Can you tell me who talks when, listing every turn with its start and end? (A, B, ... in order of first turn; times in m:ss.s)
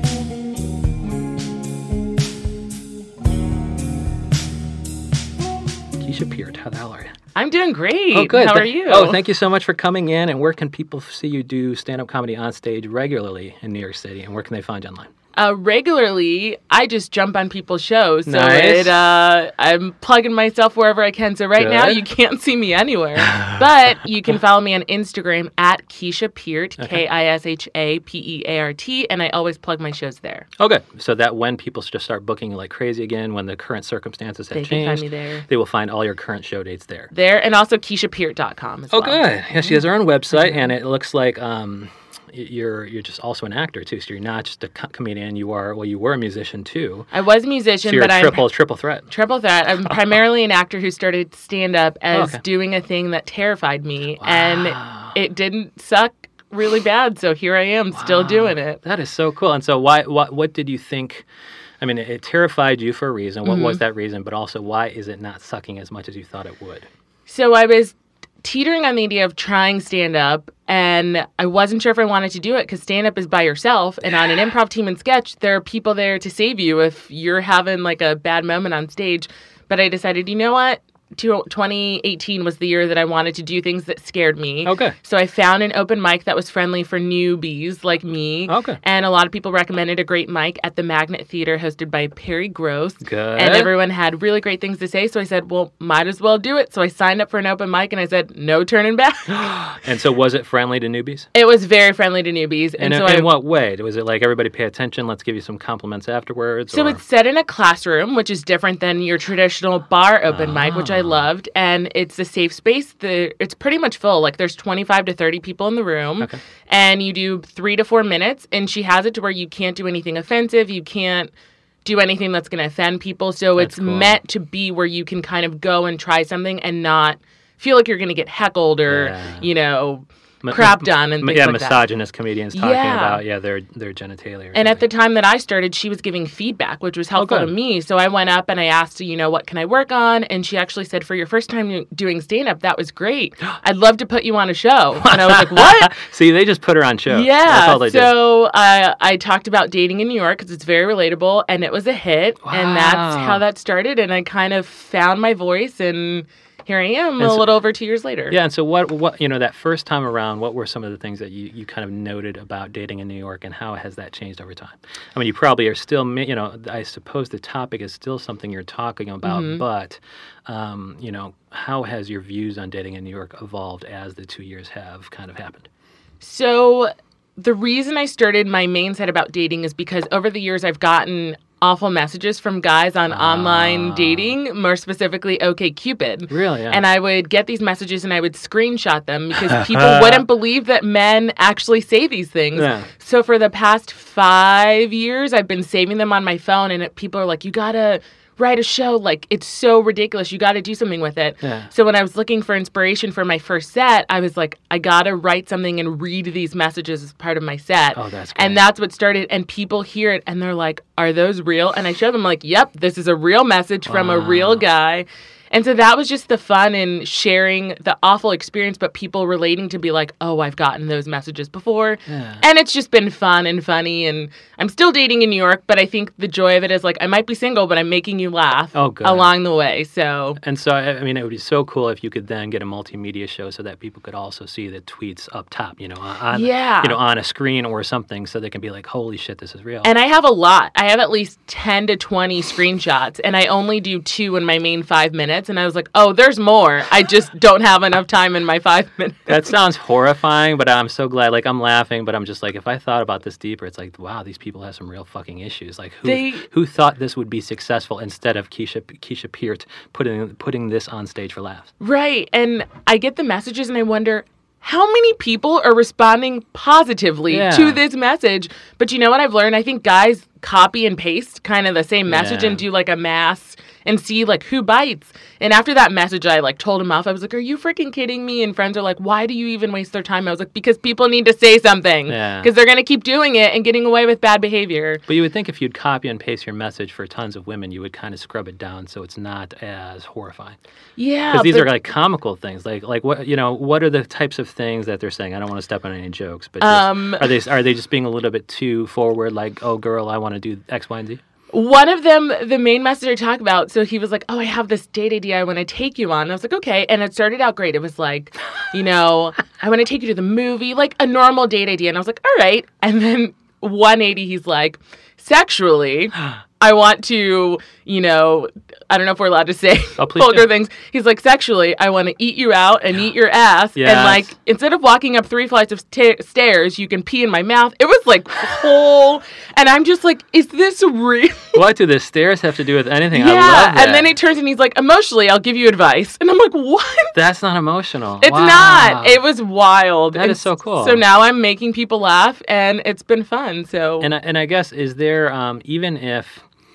0:06.0-0:07.1 A
0:07.4-0:09.2 B
0:08.1-0:15.1 A
0:15.4-0:30.5 B
0:18.2-0:18.9 A
0:21.6-0:22.0 A
0:30.6-0:37.1 A
0:34.5-0:35.5 B
0:37.1-0:39.8 B
0:38.9-0:47.1 A
0:40.3-0:40.6 B
0:47.1-0:48.5 B
0:47.8-0:49.1 A
0:49.1-0:58.8 B
0:52.1-0:52.4 A
0:54.2-0:55.2 A
0:57.9-1:01.3 A
1:01.8-1:06.9 A
1:03.4-1:03.8 B
1:07.3-1:39.6 B
1:24.6-1:25.0 A
1:28.5-1:28.8 A
1:33.0-1:33.7 A
1:39.7-1:41.3 A
1:41.3-1:43.3 B
1:42.8-1:47.0 A
1:46.7-2:01.3 B
1:50.3-1:51.2 A
2:01.8-2:11.9 B
2:03.6-2:04.2 A
2:08.9-2:09.4 A
2:10.4-2:14.8 A
2:12.5-2:13.2 B
2:14.5-2:25.9 B
2:17.2-2:17.5 A
2:25.0-2:28.2 A
2:27.1-2:38.4 B
2:32.4-2:33.4 A
2:37.2-2:37.5 A
2:38.3-2:55.7 A
2:49.2-2:49.6 B
2:56.2-3:50.4 B
3:03.1-3:04.3 A
3:06.3-3:06.8 A
3:09.5-3:10.2 A
3:12.5-3:12.9 A
3:21.4-3:21.7 A
3:27.9-3:28.6 A
3:33.9-3:34.6 A
3:42.1-3:42.4 A
3:48.7-3:49.3 A
3:50.4-3:59.9 A
3:56.3-3:57.0 B
3:59.8-4:09.5 B
4:09.3-4:21.7 A
4:16.0-4:16.4 B
4:21.8-4:45.0 B
4:27.3-4:27.8 A
4:32.1-4:32.6 A
4:42.1-4:42.5 A
4:45.1-4:50.6 A
4:51.0-4:51.7 B
4:51.3-5:01.2 A
4:56.6-4:57.3 B
5:01.5-5:31.6 B
5:20.0-5:20.5 A
5:23.8-5:24.3 A
5:31.5-5:34.1 A
5:33.1-5:37.2 B
5:37.1-5:39.2 A
5:38.2-5:44.1 B
5:40.1-5:41.0 A
5:44.0-5:46.4 A